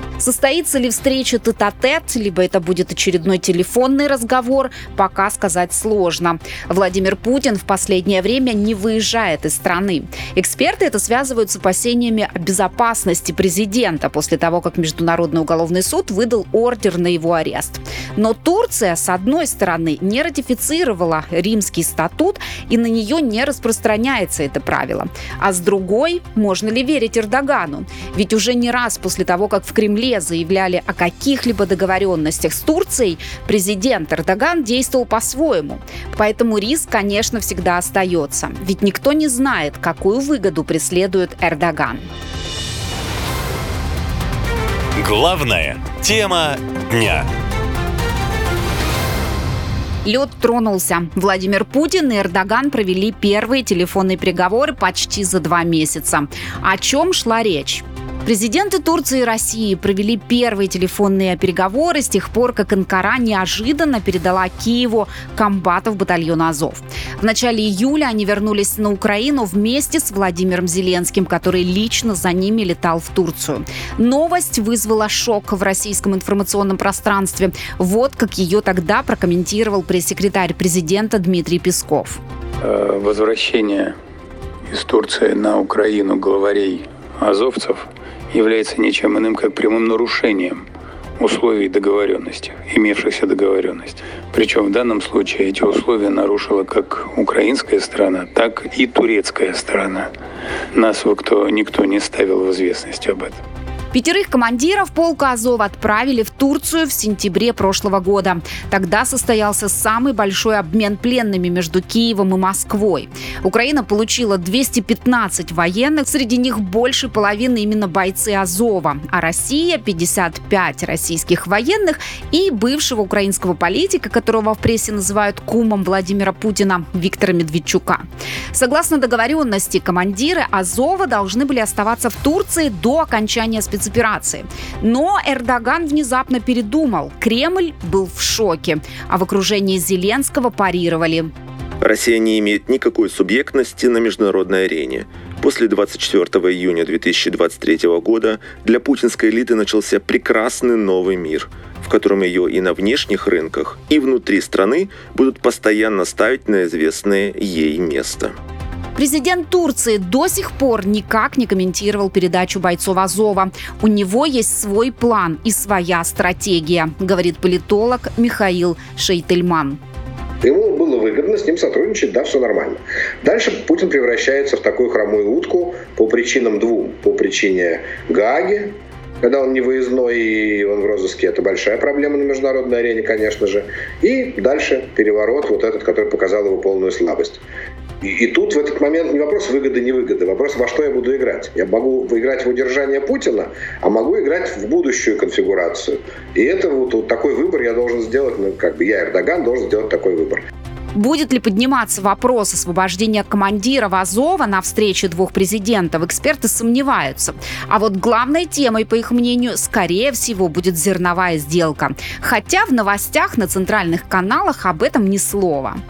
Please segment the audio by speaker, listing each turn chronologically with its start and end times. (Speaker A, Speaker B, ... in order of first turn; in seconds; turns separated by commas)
Speaker A: 0.2-42.1, Speaker B: 45.0-47.3, Speaker A: 50.0-82.2, Speaker C: 82.6-84.0, Speaker C: 84.7-90.7, Speaker C: 91.2-100.1, Speaker C: 100.7-103.4, Speaker A: 103.9-141.3, Speaker D: 141.8-158.3, Speaker A: 159.0-169.8, Speaker E: 170.4-187.4, Speaker E: 188.0-200.4, Speaker A: 200.9-215.8